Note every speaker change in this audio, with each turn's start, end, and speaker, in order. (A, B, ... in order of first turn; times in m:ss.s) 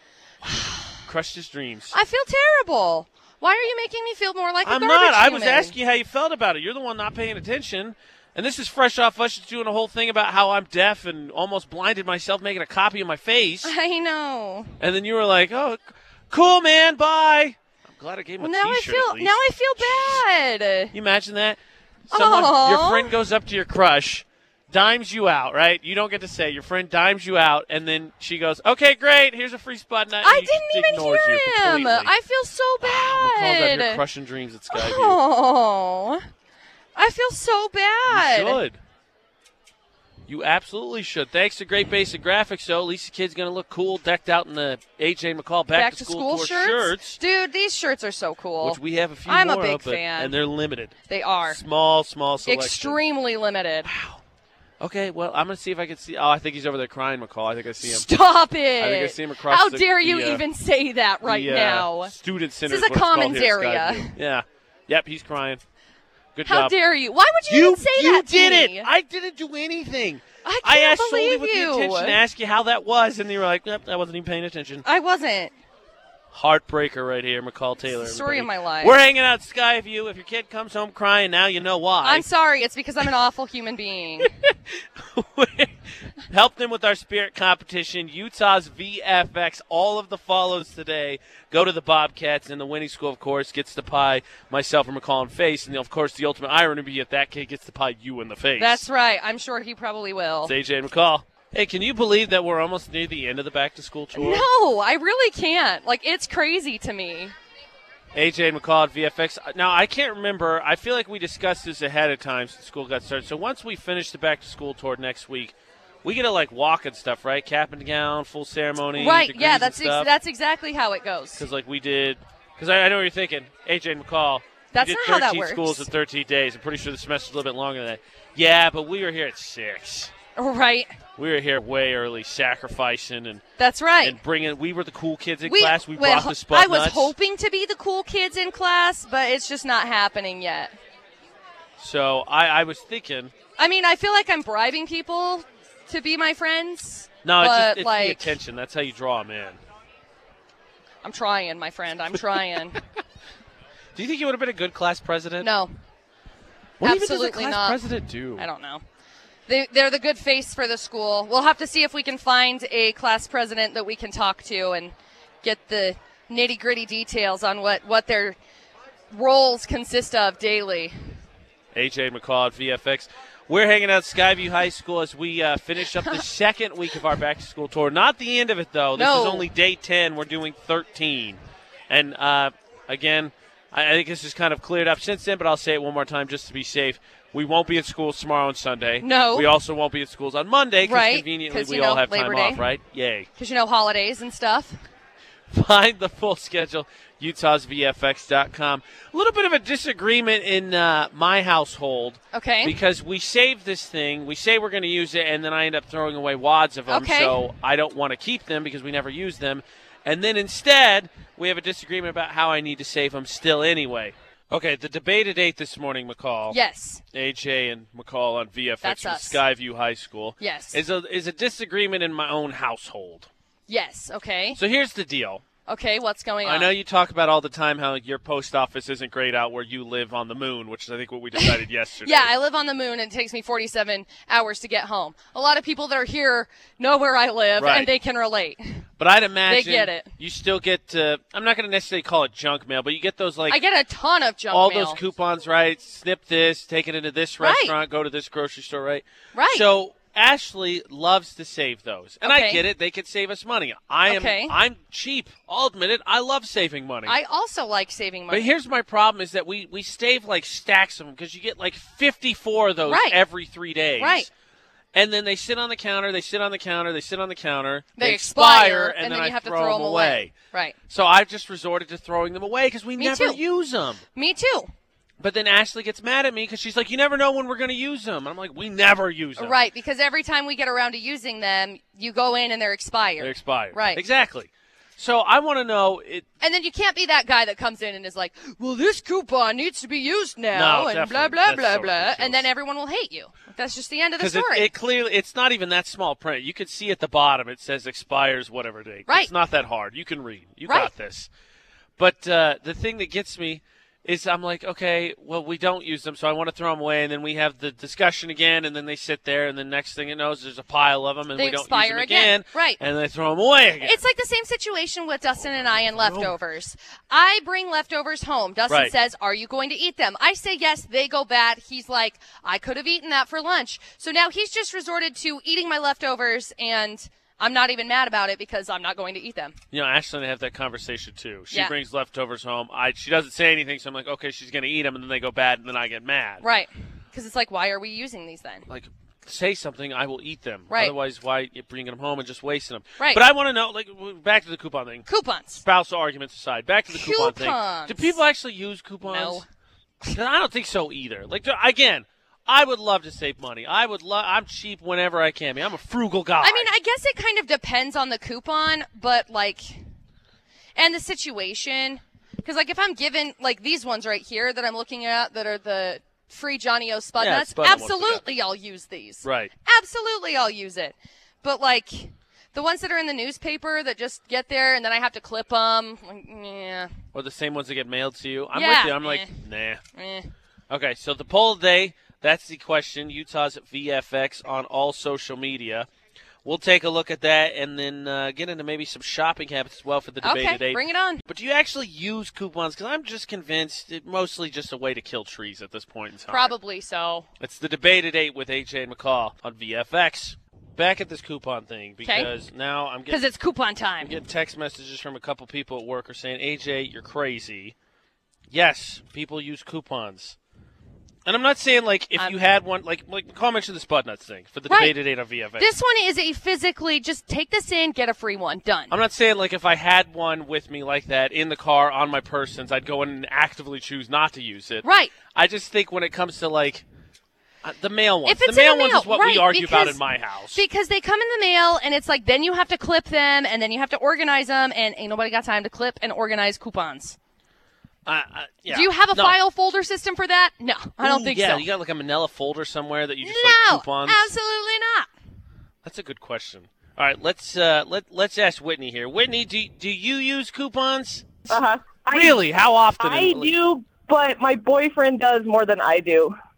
0:00.4-0:01.9 A
0:00.5-0:01.0 B
0:01.9-0:05.7 B
0:04.6-0:13.7 A
0:13.6-0:14.7 B
0:14.8-0:20.2 A
0:18.4-0:20.9 B
0:20.9-0:32.1 A
0:22.1-0:23.1 B
0:30.2-0:34.0 B
0:32.8-0:35.2 A
0:34.7-0:36.2 B
0:37.0-0:38.6 B
0:38.1-0:38.8 A
0:40.3-0:47.2 A
0:45.7-0:50.4 B
0:48.6-0:50.9 A
0:51.1-0:51.6 B
0:51.5-0:53.0 A
0:52.4-0:53.9 B
0:53.8-0:54.2 A
0:54.8-0:58.1 A
0:57.8-1:02.1 B
0:58.8-1:00.4 A
1:01.2-1:05.6 A
1:02.7-1:04.1 B
1:06.4-1:06.7 A
1:06.5-1:08.9 B
1:07.5-1:14.8 A
1:10.4-1:12.2 B
1:14.8-1:15.5 B
1:16.3-1:22.2 A
1:17.8-1:19.0 B
1:22.0-1:24.3 B
1:24.2-1:38.8 A
1:38.6-1:40.5 B
1:40.4-1:44.4 A
1:44.1-1:47.3 B
1:48.1-2:00.1 A
1:59.0-2:01.4 B
2:01.4-2:10.1 A
2:04.7-2:05.9 B
2:10.4-2:11.0 B
2:11.2-2:13.4 A
2:13.6-2:14.2 B
2:14.0-2:17.1 A
2:15.4-2:20.7 B
2:21.8-2:23.3 A
2:23.6-2:28.4 B
2:27.2-2:29.6 A
2:31.0-2:32.8 B
2:34.0-2:35.5 A
2:35.4-2:35.7 B
2:36.8-2:38.5 A
2:36.8-2:37.8 B
2:38.4-2:38.8 B
2:39.5-2:48.4 B
2:49.1-2:50.9 B
2:51.7-3:01.4 A
2:55.9-2:56.2 B
2:59.0-2:59.5 B
3:01.9-3:13.3 A
3:09.0-3:09.5 B
3:10.8-3:12.6 B
3:13.4-3:14.8 B
3:15.5-3:36.6 A
3:22.3-3:22.8 B
3:26.9-3:27.4 B
3:36.5-3:37.0 B
3:37.1-3:43.3 A
3:38.8-3:39.4 B
3:40.4-3:40.8 B
3:43.7-3:44.6 B
3:44.5-3:45.4 A
3:45.7-3:46.7 B
3:46.4-3:52.3 A
3:51.4-3:58.8 B
3:57.6-3:57.9 A
3:59.0-4:03.6 A
3:59.5-4:00.1 B
4:03.5-4:05.0 B
4:04.5-4:17.2 A
4:07.4-4:07.7 B
4:09.3-4:09.6 B
4:12.2-4:12.6 B
4:14.1-4:14.6 B
4:17.1-4:18.5 B
4:18.3-4:24.3 A
4:22.9-4:23.2 B
4:24.0-4:24.3 B
4:24.9-4:30.3 A
4:28.0-4:30.8 B
4:30.9-4:34.0 A
4:33.0-4:33.4 B
4:34.1-4:34.7 B
4:35.2-4:39.5 A
4:39.4-4:44.0 B
4:43.2-4:46.2 A
4:46.4-4:54.7 B
4:50.5-4:52.4 A
4:54.2-5:01.3 A
5:02.0-5:14.0 A
5:11.4-5:12.8 B
5:13.8-5:29.6 B
5:15.8-5:16.3 A
5:18.7-5:18.9 A
5:29.7-5:36.4 A
5:36.4-5:38.6 B
5:38.7-5:45.0 A
5:40.7-5:40.9 B
5:43.0-5:43.2 B
5:45.1-5:45.6 B
5:45.6-5:49.4 A
5:46.9-5:48.2 B
5:49.0-5:49.4 B
5:50.1-5:56.7 A
5:56.4-5:59.8 B
6:00.8-6:16.9 B
6:07.2-6:08.2 A
6:09.2-6:09.5 A
6:17.1-6:19.8 A
6:18.5-6:19.3 B
6:19.9-6:20.3 B
6:20.7-6:25.9 A
6:26.4-6:36.5 A
6:30.2-6:31.2 B
6:36.3-6:37.3 B
6:37.4-6:43.2 A
6:42.0-6:42.3 B
6:43.1-6:44.2 B
6:44.0-6:47.7 A
6:48.5-6:50.4 A
6:51.2-6:55.7 A
6:54.7-6:54.9 B
6:55.6-6:58.9 B
6:58.9-7:06.8 A
7:04.8-7:05.1 B
7:07.6-7:10.6 A
7:08.2-7:10.0 B
7:10.5-7:17.2 B
7:18.0-7:19.4 A
7:18.7-7:21.6 B
7:21.0-7:24.3 A
7:23.2-7:25.1 B
7:25.8-7:31.4 A
7:31.5-7:32.4 C
7:32.1-7:33.5 A
7:33.0-7:36.4 C